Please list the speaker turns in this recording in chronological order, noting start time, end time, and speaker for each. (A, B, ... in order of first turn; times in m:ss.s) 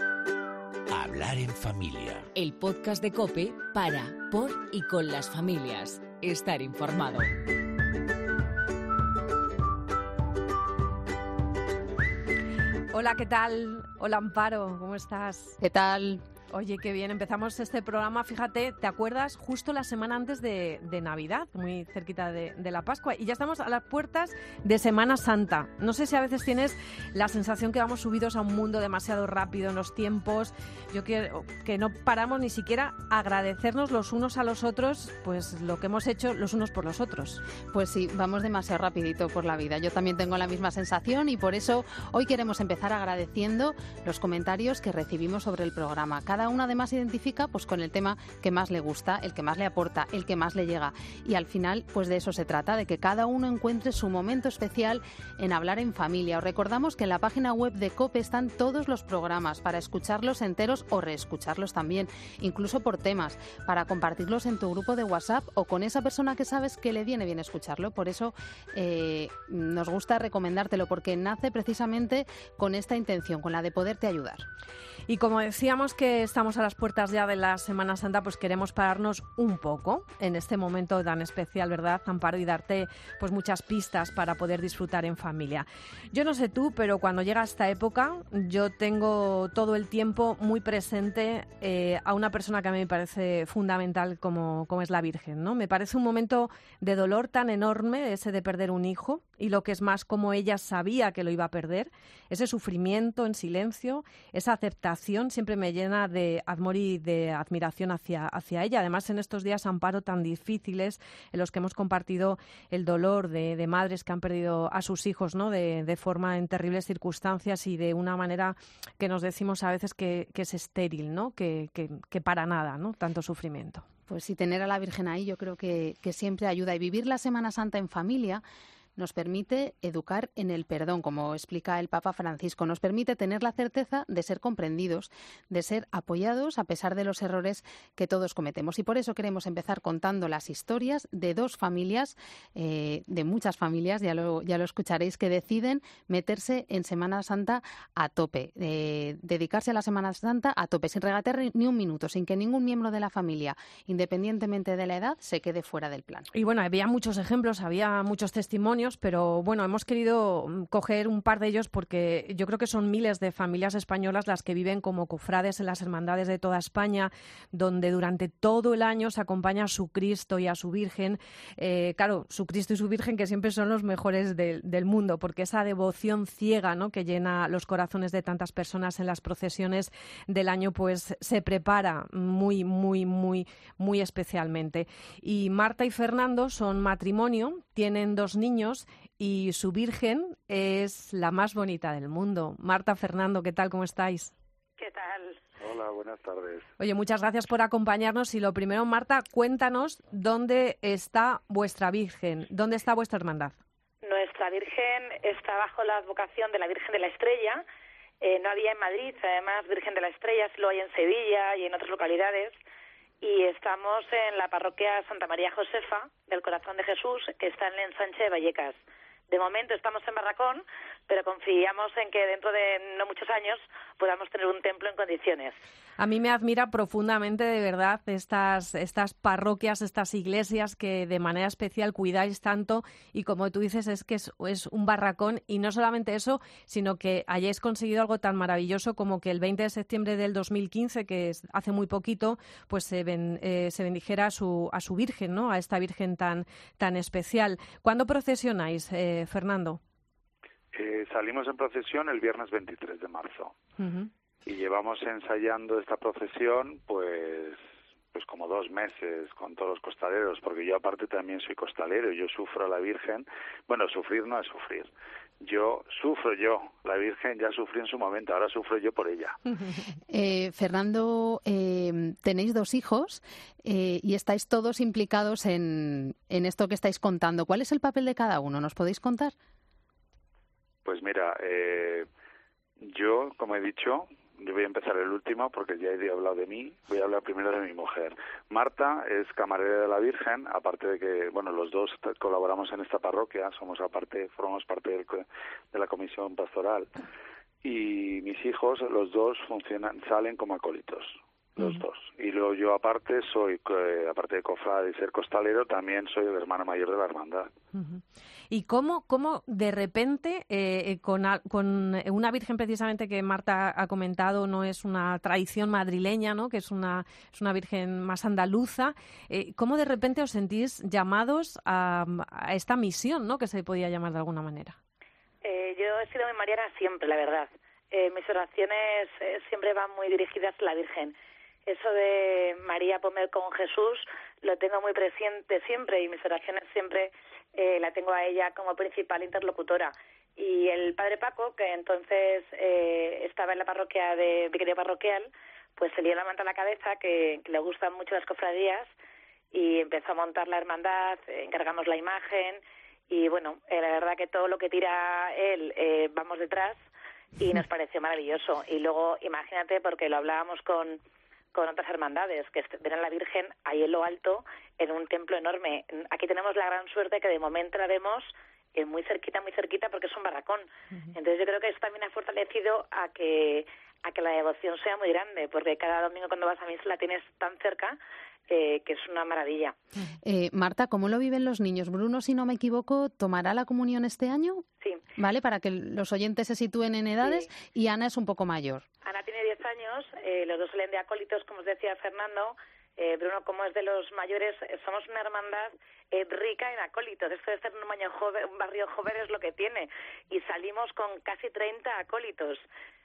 0:02.3-0:07.3 A
0:12.9-0:15.6 B
0:15.6-0:16.2 C
0:16.5-0:37.4 B
0:37.7-1:14.4 C
1:15.1-2:03.8 B
2:04.1-2:08.4 C
2:09.0-2:36.3 C
2:36.3-3:14.3 B
3:14.8-3:15.4 D
3:15.6-3:16.6 E
3:16.8-3:23.6 B
3:24.0-3:27.6 D
3:28.2-3:32.6 D
3:33.2-3:38.8 D
3:39.3-3:45.6 D
3:46.0-4:09.8 B
4:10.7-4:13.5 E
4:13.8-4:14.1 B
4:14.4-4:17.6 E
4:18.1-4:29.4 E
4:30.1-4:39.3 C
4:40.8-4:42.1 E
4:42.8-4:56.9 E
4:57.6-5:07.5 E
5:07.7-5:24.8 B
5:25.4-5:31.1 D
5:31.6-5:48.9 D
5:49.5-5:56.8 D
5:57.4-6:01.0 D
6:01.5-6:18.0 D
6:18.5-6:19.8 D
6:20.2-6:24.6 C
6:25.2-6:28.8 C
6:29.0-6:42.6 D